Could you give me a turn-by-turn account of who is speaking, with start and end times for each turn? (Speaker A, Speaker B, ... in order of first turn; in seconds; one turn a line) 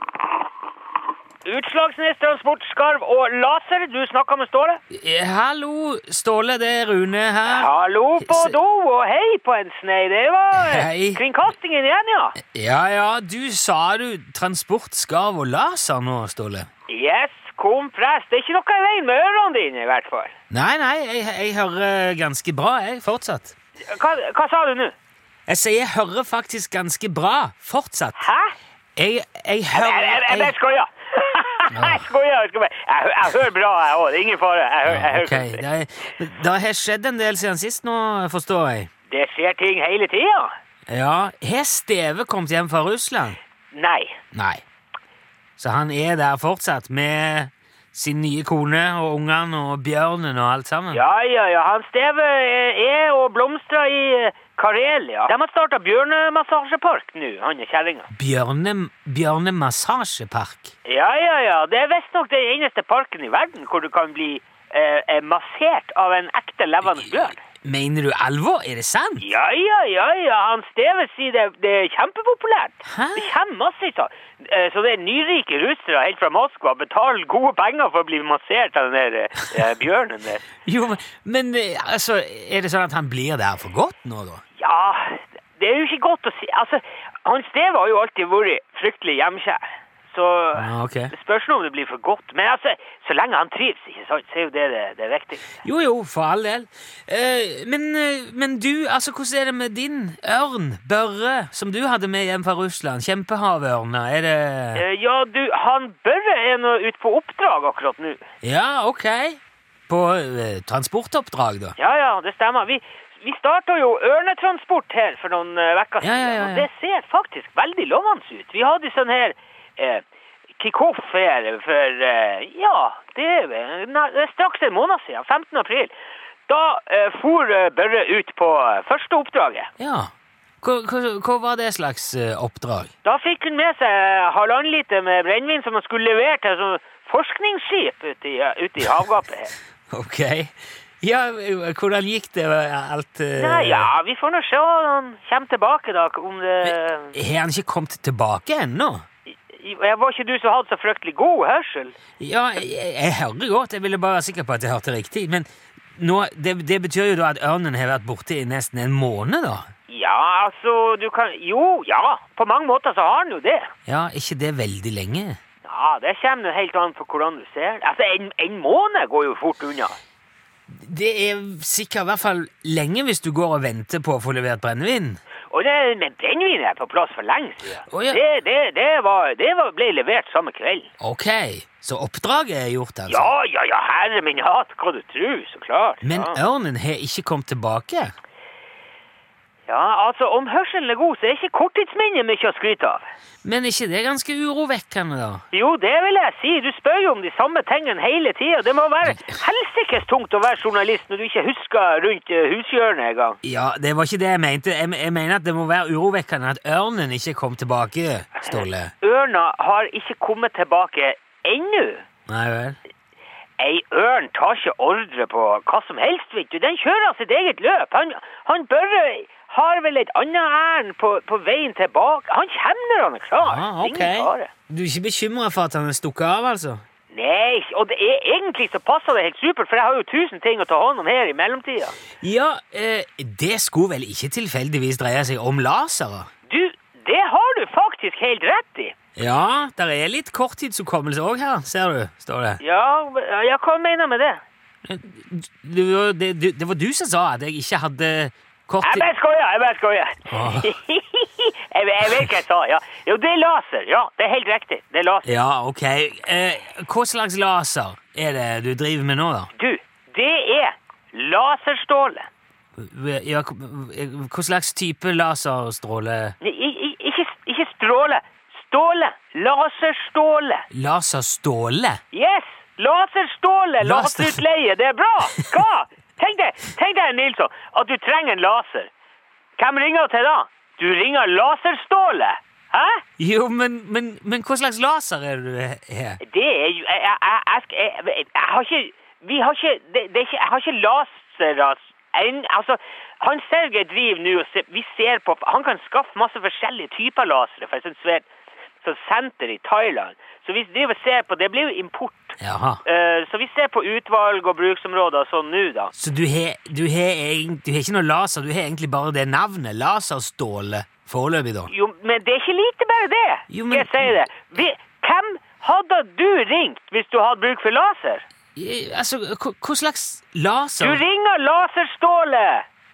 Speaker A: 1.4-4.8
Speaker B: 4.9-8.6
Speaker A: 7.5-12.4
Speaker B: 10.5-11.2
Speaker B: 12.5-16.7
Speaker A: 16.9-20.3
Speaker B: 20.5-23.5
Speaker A: 23.8-24.9
Speaker B: 25.5-28.3
Speaker A: 28.2-28.5
Speaker B: 29.0-30.5
Speaker A: 29.7-35.6
Speaker B: 31.7-32.0
Speaker B: 34.9-38.9
Speaker A: 39.1-40.5
Speaker B: 40.9-43.4
Speaker A: 43.7-44.2
Speaker B: 44.3-44.6
Speaker B: 45.6-51.0
Speaker A: 50.9-58.1
Speaker B: 58.1-60.7
Speaker A: 60.8-67.4
Speaker B: 66.9-69.2
Speaker A: 69.2-80.5
Speaker B: 72.8-73.3
Speaker B: 80.6-84.4
Speaker A: 84.6-95.6
Speaker B: 90.5-91.1
Speaker B: 95.6-104.8
Speaker A: 104.7-108.2
Speaker B: 108.4-111.8
Speaker A: 111.8-120.0
Speaker B: 116.0-116.7
Speaker A: 120.6-125.9
Speaker A: 126.5-129.7
Speaker B: 129.8-130.1
Speaker B: 130.6-132.9
Speaker A: 133.0-139.5
Speaker B: 139.9-143.9
Speaker A: 143.4-147.2
Speaker B: 146.6-149.0
Speaker A: 149.3-151.9
Speaker B: 152.2-159.7
Speaker A: 159.9-163.7
Speaker B: 163.8-165.4
Speaker A: 165.6-169.9
Speaker B: 170.7-175.2
Speaker A: 175.5-180.9
Speaker B: 177.9-178.2
Speaker B: 181.0-183.3
Speaker A: 183.1-186.4
Speaker B: 186.0-188.1
Speaker A: 189.7-193.1
Speaker B: 193.4-195.4
Speaker A: 195.5-203.4
Speaker B: 199.0-199.4
Speaker B: 203.4-208.9
Speaker A: 208.4-212.0
Speaker B: 212.3-212.8
Speaker A: 213.6-224.5
Speaker B: 223.4-226.8
Speaker A: 227.1-232.0
Speaker B: 232.2-236.3
Speaker A: 236.5-238.9
Speaker B: 239.2-242.6
Speaker A: 242.6-244.4
Speaker B: 244.8-249.1
Speaker A: 248.8-255.3
Speaker B: 250.3-250.7
Speaker B: 255.2-259.5
Speaker A: 259.6-262.3
Speaker B: 262.8-266.3
Speaker A: 266.4-270.6
Speaker B: 270.7-272.0
Speaker A: 272.1-278.9
Speaker B: 273.8-274.4
Speaker A: 279.6-283.0
Speaker B: 283.2-286.2
Speaker A: 286.2-298.3
Speaker A: 298.8-305.9
Speaker B: 302.4-302.8
Speaker B: 305.9-311.7
Speaker A: 311.7-318.2
Speaker B: 313.5-314.2
Speaker B: 318.6-321.0
Speaker A: 320.8-322.6